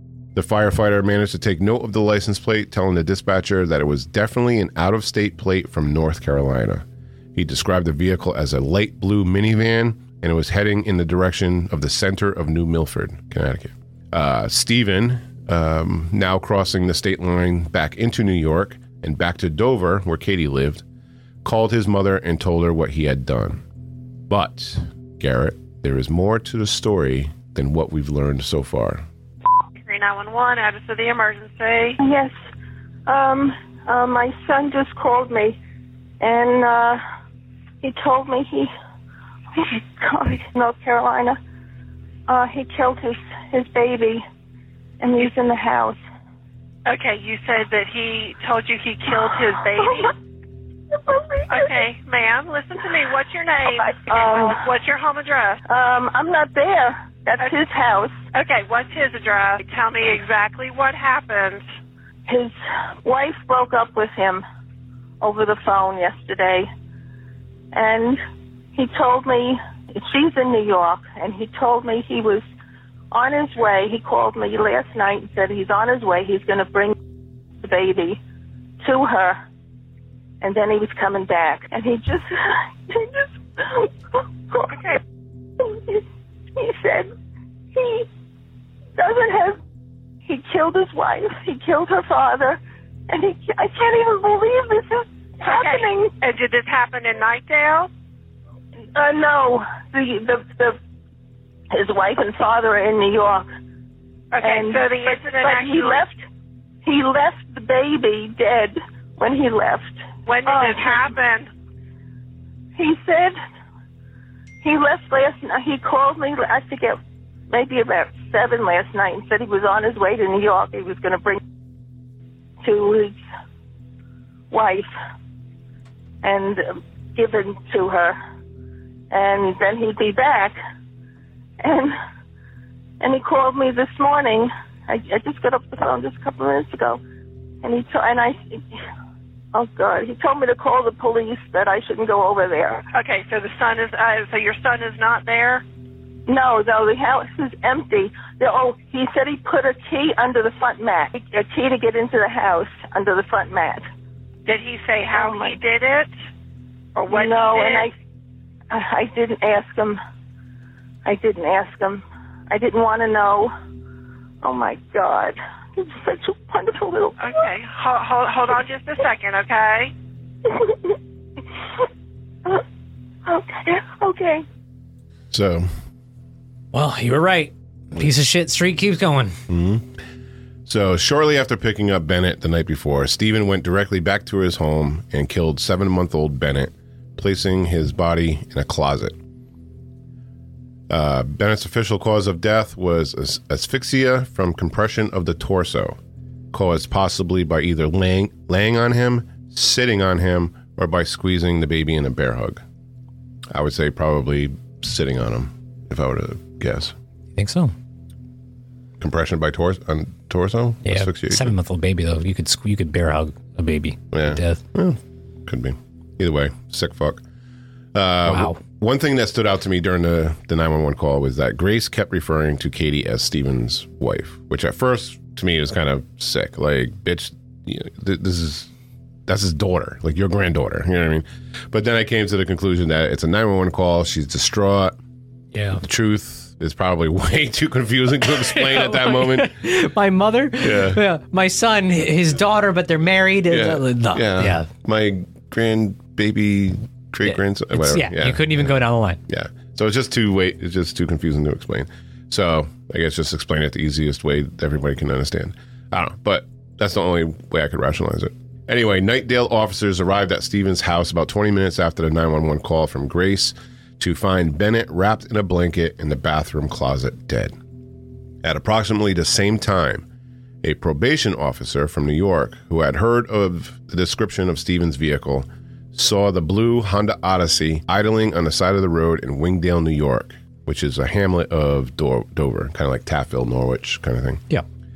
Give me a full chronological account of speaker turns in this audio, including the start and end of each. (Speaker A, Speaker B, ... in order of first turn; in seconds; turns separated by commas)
Speaker A: 0.3-20.8, Speaker A: 21.4-23.6, Speaker A: 24.3-29.0, Speaker B: 29.8-32.0, Speaker C: 32.0-32.3, Speaker C: 33.0-35.6, Speaker C: 36.2-37.0, Speaker C: 37.8-38.7, Speaker C: 39.6-41.4, Speaker C: 42.3-44.2, Speaker C: 45.0-46.0, Speaker B: 46.9-50.1, Speaker C: 49.8-50.1, Speaker C: 50.9-51.8, Speaker B: 51.5-55.6, Speaker C: 53.7-54.6, Speaker C: 55.7-58.1, Speaker B: 58.3-61.6, Speaker C: 62.3-62.5, Speaker C: 63.0-64.4, Speaker C: 65.2-66.7, Speaker C: 67.7-68.2, Speaker C: 68.7-72.4, Speaker C: 73.1-76.9, Speaker C: 77.6-78.2, Speaker C: 78.8-79.4, Speaker C: 80.4-84.8, Speaker B: 84.7-85.0, Speaker C: 85.6-86.0, Speaker C: 86.5-87.1, Speaker C: 87.7-88.1, Speaker C: 89.0-89.6, Speaker C: 90.2-96.1, Speaker B: 95.4-97.9, Speaker C: 98.9-100.8, Speaker C: 101.7-103.5, Speaker B: 104.3-106.0, Speaker C: 104.4-106.2, Speaker C: 106.8-111.1, Speaker B: 110.2-111.5, Speaker C: 112.8-113.3, Speaker C: 114.6-117.0, Speaker C: 117.5-121.4, Speaker C: 122.6-123.2, Speaker C: 124.5-124.9, Speaker C: 126.2-128.2, Speaker C: 129.1-130.6, Speaker C: 131.6-131.9, Speaker C: 133.0-137.0, Speaker C: 137.6-138.6, Speaker C: 139.5-142.8, Speaker B: 142.9-145.6, Speaker C: 146.3-153.8, Speaker B: 154.4-156.1, Speaker C: 155.1-155.6, Speaker B: 156.9-157.9, Speaker C: 157.1-157.9, Speaker C: 158.7-160.0, Speaker C: 161.0-163.5, Speaker C: 164.4-167.3, Speaker B: 167.2-169.9, Speaker C: 173.2-174.4, Speaker A: 175.3-175.7, Speaker D: 176.7-179.4, Speaker A: 179.5-179.9, Speaker A: 180.7-189.2, Speaker A: 190.9-196.0, Speaker A: 196.5-202.6, Speaker A: 203.5-206.9, Speaker D: 207.3-207.7, Speaker A: 209.0-211.5, Speaker D: 210.8-214.6, Speaker A: 214.1-217.2, Speaker A: 217.9-228.7, Speaker D: 218.2-218.6, Speaker A: 229.3-234.9, Speaker D: 235.5-235.8, Speaker A: 235.8-239.6, Speaker D: 238.2-244.7, Speaker A: 240.6-241.0, Speaker A: 243.5-267.5, Speaker D: 247.2-249.2, Speaker A: 268.4-270.0, Speaker A: 270.6-284.4